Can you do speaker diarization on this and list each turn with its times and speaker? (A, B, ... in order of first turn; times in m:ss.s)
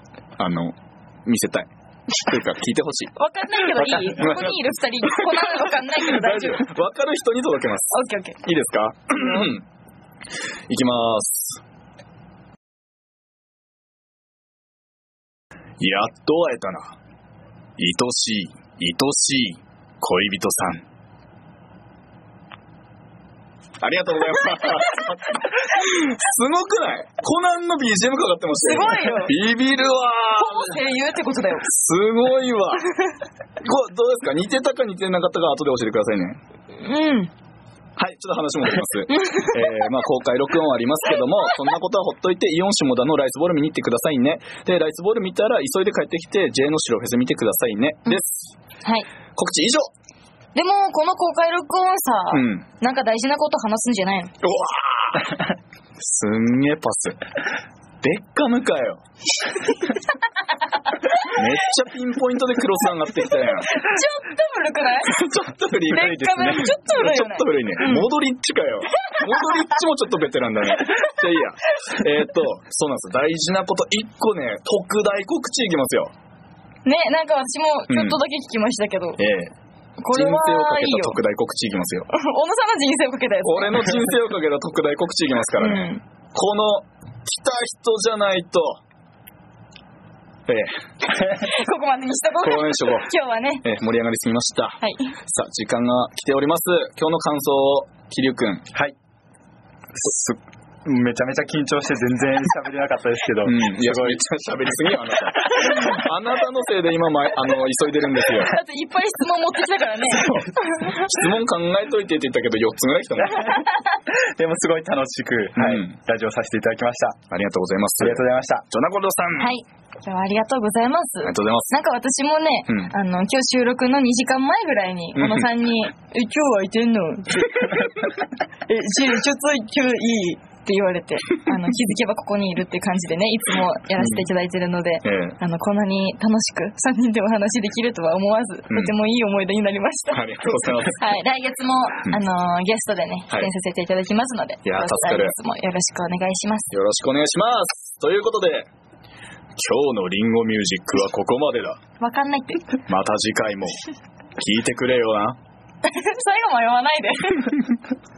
0:00.4-0:03.1 A
0:03.2-0:06.7 B
0:03.7-0:04.6 A
0:05.1-0:09.6 A
0:07.9-0:08.4 B
0:10.7-0:11.6 A
0:15.8-0:17.0 A
0:17.8-0:20.8 A
0:23.8-0:30.8 A
0:28.6-0:29.4 B
0:30.4-0:31.7 B
0:31.7-0:32.9 A
0:33.6-0:36.4 A
0:36.8-0:37.3 B
0:38.0-0:48.5 A
0:39.1-0:39.9 B
0:49.4-0:49.9 A
0:50.6-0:54.4 B
0:52.3-0:52.6 A
0:54.4-0:55.5 A
0:56.0-0:57.2 A
0:58.0-0:59.0 A
1:00.9-1:01.4 B
1:01.1-1:03.8 A
1:03.7-1:05.2 B
1:05.0-1:16.1 A
1:05.9-1:08.1 B
1:09.1-1:09.7 B
1:16.8-1:19.2 B
1:17.9-1:18.2 A
1:19.2-1:19.6 A
1:20.0-1:21.2 B
1:20.1-1:22.1 A
1:22.1-1:24.0 B
1:23.4-1:28.8 A
1:25.6-1:26.0 B
1:30.5-1:30.8 A
1:31.1-1:33.6 B
1:32.4-1:33.1 A
1:33.6-1:38.6 A
1:34.8-1:35.1 B
1:40.0-1:44.2 C
1:43.4-1:48.6 A
1:48.4-1:51.1 B
1:50.2-1:53.6 A
1:53.4-1:53.8 B
1:54.1-1:57.2 C
1:55.6-1:56.0 A
1:57.3-1:59.5 A
1:58.0-1:58.6 C
1:59.4-2:20.3 B
2:01.2-2:01.7 A
2:02.7-2:02.9 A
2:05.2-2:05.5 A
2:14.0-2:14.3 A
2:15.0-2:15.4 A
2:18.7-2:19.0 A
2:20.1-2:21.0 A
2:20.8-2:26.7 B
2:24.6-2:25.4 A
2:26.7-2:28.7 A
2:29.6-2:31.8 A
2:32.0-2:32.8 B
2:32.8-2:33.8 A
2:34.4-2:35.4 A
2:35.8-2:37.6 B